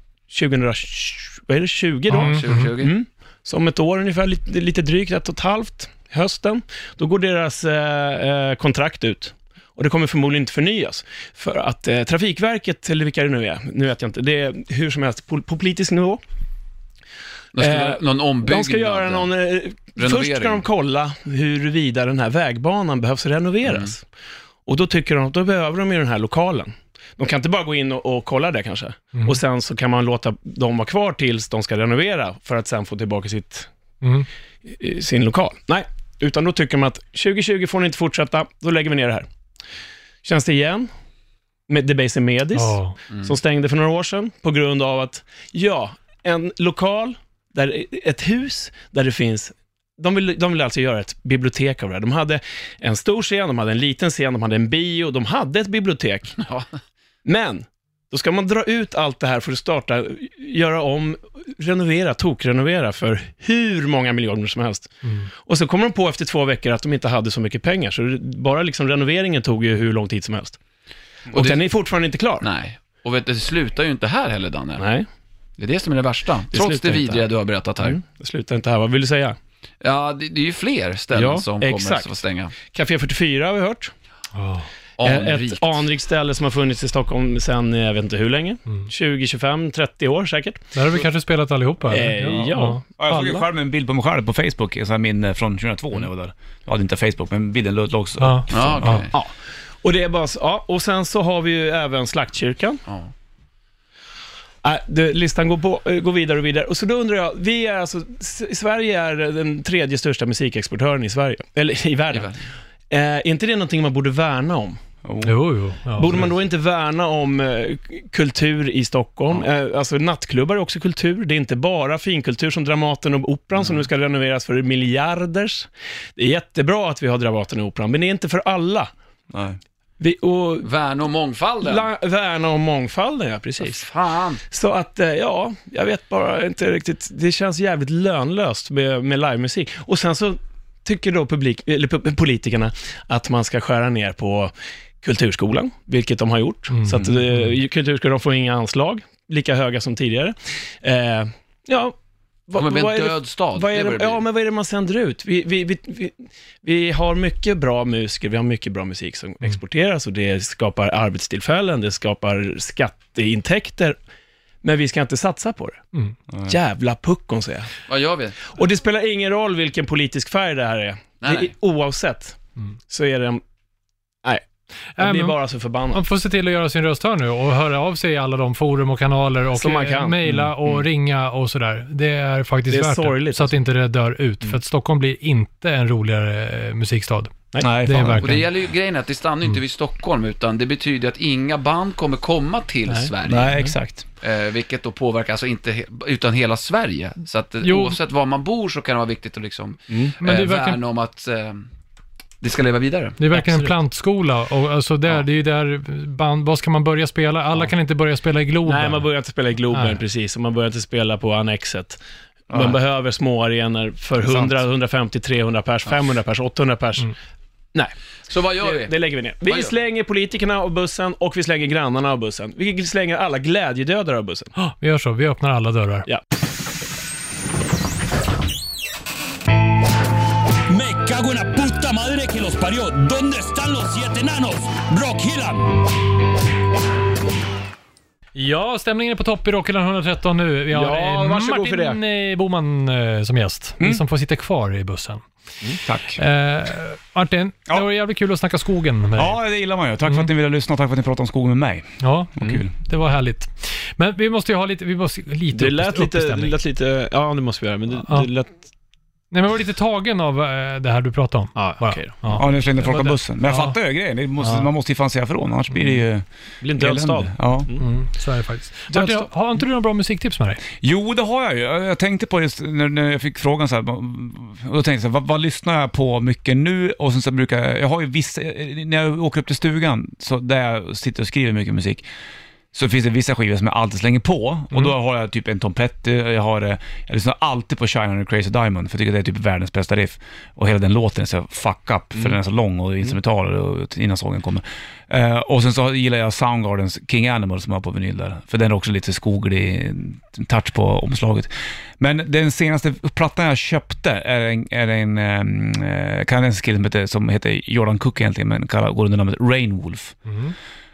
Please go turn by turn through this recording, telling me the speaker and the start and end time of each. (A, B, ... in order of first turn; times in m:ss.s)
0:00.3-0:16.2 A
0:02.1-0:02.7 B
0:02.1-0:02.9 C
0:17.6-0:19.3 C
0:17.6-0:24.0 A
0:20.0-0:20.6 C
0:23.6-0:23.9 C
0:24.7-0:33.7 A
0:34.0-0:34.3 B
0:34.7-0:39.3 A
0:40.2-0:40.9 A
0:41.7-0:56.4 A
0:42.6-0:43.0 B
0:56.4-0:56.7 C
0:57.2-1:10.6 A
1:11.3-1:12.5 A
1:11.3-1:11.7 C
1:12.4-1:14.9 C
1:14.8-1:15.1 A
1:15.6-1:18.0 C
1:16.5-1:17.2 A
1:17.8-1:19.4 A
1:19.8-1:22.6 C
1:21.1-1:23.9 A
1:24.4-1:24.7 B
1:25.0-1:25.8 C
1:25.0-1:30.8 A
1:30.8-1:32.8 B
1:31.9-1:33.4 A
1:32.4-1:39.0 D
1:38.2-1:39.0 B
1:38.5-1:39.2 C
1:39.1-1:42.8 A
1:42.9-1:43.1 C
1:44.6-1:52.3 A
1:52.1-1:52.4 C
1:52.9-1:54.8 A
1:55.0-1:55.4 D
1:55.2-1:56.1 B
1:56.0-2:08.9 A
2:09.3-2:09.6 D
2:10.0-2:10.7 A
2:10.6-2:11.9 C
2:11.6-2:13.9 A
2:13.6-2:14.4 C
2:14.5-2:32.0 A
2:26.7-2:27.5 B
2:32.5-2:44.0 A
2:32.6-2:34.2 C
2:44.6-2:45.8 A
2:46.3-2:46.6 D
2:46.4-2:47.7 A
2:47.9-2:48.4 C
2:48.5-2:52.4 A
2:51.2-2:51.5 C
2:52.9-2:53.4 A
2:55.0-2:55.4 B
2:55.0-2:56.0 A
2:55.9-3:08.5 B
2:59.6-3:00.2 A
3:02.7-3:03.6 A
3:07.6-3:08.4 D
3:08.2-3:13.6 C
3:13.2-3:14.0 D
3:14.2-3:21.7 C
3:17.6-3:18.0 B
3:19.9-3:20.2 A
3:20.2-3:20.8 B
3:22.4-3:23.2 C
3:23.2-3:29.1 B
3:23.4-3:23.7 A
3:28.6-3:37.1 A
3:29.7-3:30.0 B
3:32.5-3:32.8 D
3:34.2-3:34.6 D
3:38.3-3:39.7 C
3:38.6-3:44.5 A
3:44.6-3:46.1 B
3:50.7-3:55.8 E
3:58.4-4:05.3 B
4:00.7-4:02.0 A
4:05.8-4:06.2 D
4:06.1-4:09.4 B
4:09.2-4:12.7 D
4:12.0-4:16.6 B
4:15.5-4:18.6 A
4:19.3-4:23.8 B
4:21.6-4:22.4 A
4:22.4-4:26.2 D
4:24.4-4:24.7 B
4:26.6-4:27.9 A
4:26.8-4:27.7 D
4:27.8-4:30.6 B
4:28.9-4:29.3 A
4:30.8-4:42.0 D
4:42.7-5:10.2 D
5:10.3-5:10.5 B